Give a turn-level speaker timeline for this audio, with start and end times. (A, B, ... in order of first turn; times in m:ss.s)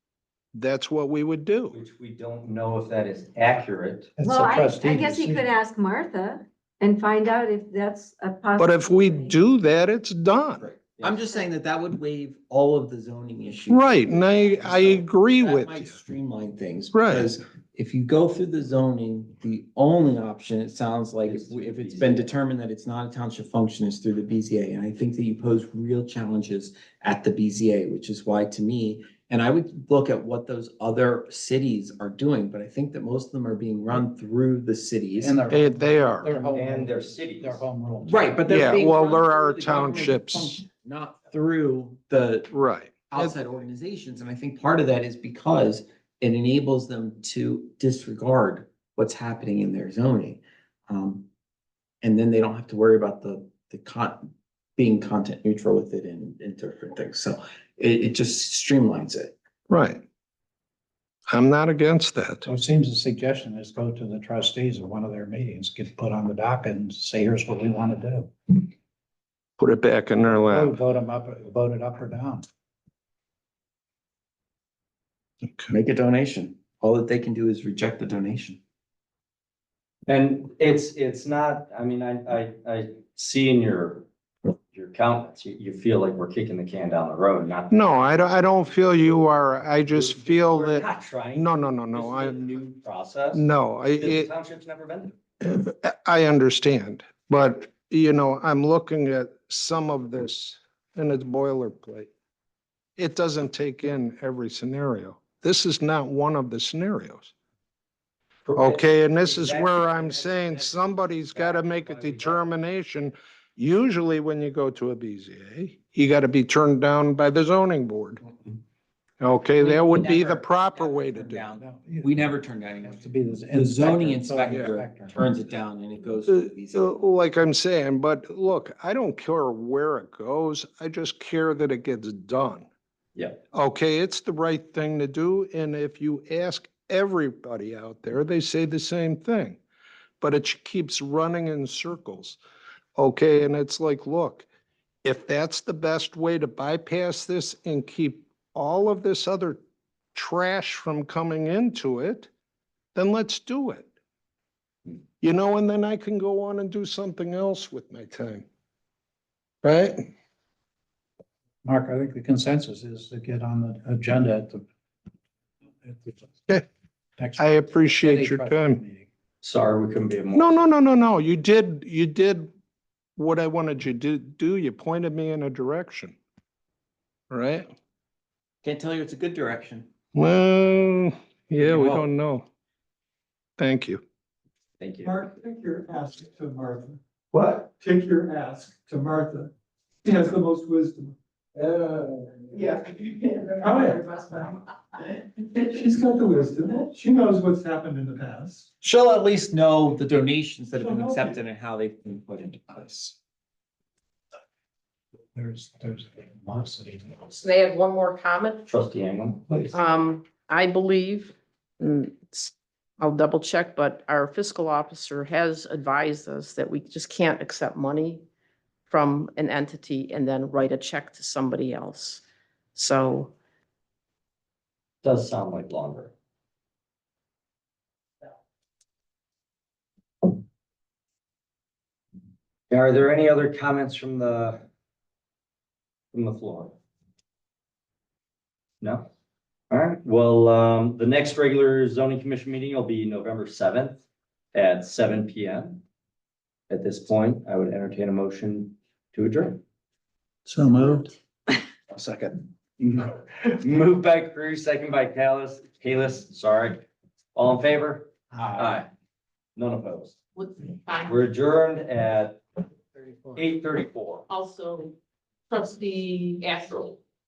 0:00.5-0:01.8 A
0:01.7-0:04.1 B
0:04.2-0:05.5 C
0:04.2-0:09.3 D
0:08.6-0:10.6 A
0:10.6-0:11.4 B
0:11.0-0:35.4 E
0:13.7-0:16.0 A
0:16.9-0:17.3 A
0:21.2-0:22.3 B
0:35.2-0:38.4 C
0:35.5-0:36.4 A
0:36.5-0:37.6 B
0:38.0-0:42.5 E
0:38.5-0:40.6 A
0:42.5-0:43.4 A
0:43.1-0:51.3 E
0:52.0-0:59.3 E
0:59.7-1:00.0 A
1:01.3-1:02.4 A
1:02.4-1:08.6 C
1:09.6-1:10.8 A
1:10.2-1:12.4 C
1:15.7-1:18.6 E
1:20.1-1:24.0 B
1:24.7-1:27.9 B
1:27.7-1:32.4 A
1:29.8-1:33.4 B
1:33.3-1:34.3 A
1:34.0-1:35.2 B
1:35.4-1:42.1 A
1:43.0-1:47.3 A
1:48.4-1:52.6 B
1:48.5-1:58.2 A
1:59.2-2:01.4 A
1:59.6-2:06.9 E
2:01.6-2:05.2 C
2:06.3-2:12.7 A
2:13.5-2:19.6 A
2:20.2-2:22.4 A
2:23.0-2:24.4 A
2:25.0-2:29.6 A
2:30.1-2:32.3 A
2:32.9-2:33.9 A
2:35.2-2:38.4 A
2:39.6-2:40.1 A
2:41.6-2:44.6 C
2:45.8-2:46.6 C
2:47.2-2:49.1 C
2:47.4-2:48.8 A
2:49.4-2:50.6 B
2:50.3-2:52.5 A
2:53.2-2:56.2 A
2:57.3-2:57.7 A
2:58.6-2:59.9 E
3:00.1-3:02.4 A
3:01.6-3:02.1 E
3:03.6-3:04.0 A
3:04.8-3:05.2 B
3:05.0-3:09.5 F
3:10.0-3:11.1 F
3:11.6-3:12.2 A
3:12.6-3:14.3 G
3:13.6-3:14.6 F
3:15.3-3:18.7 F
3:18.8-3:23.1 E
3:20.8-3:21.4 F
3:25.3-3:27.3 C
3:27.2-3:28.6 G
3:28.7-3:29.7 B
3:29.7-3:38.2 G
3:38.9-3:42.2 G
3:42.7-3:43.3 G
3:45.0-3:46.1 B
3:52.7-3:54.6 B
3:56.1-3:56.8 B
3:58.8-3:59.1 B
3:59.7-4:04.0 B
4:04.5-4:05.8 B
4:06.7-4:09.6 B
4:10.5-4:11.0 C
4:11.9-4:12.3 C
4:12.8-4:16.8 B
4:17.3-4:18.9 B
4:18.3-4:18.8 C
4:19.6-4:20.2 B
4:20.4-4:21.1 G
4:21.0-4:22.4 B
4:23.4-4:24.2 B
4:24.3-4:24.9 G
4:25.5-4:27.0 G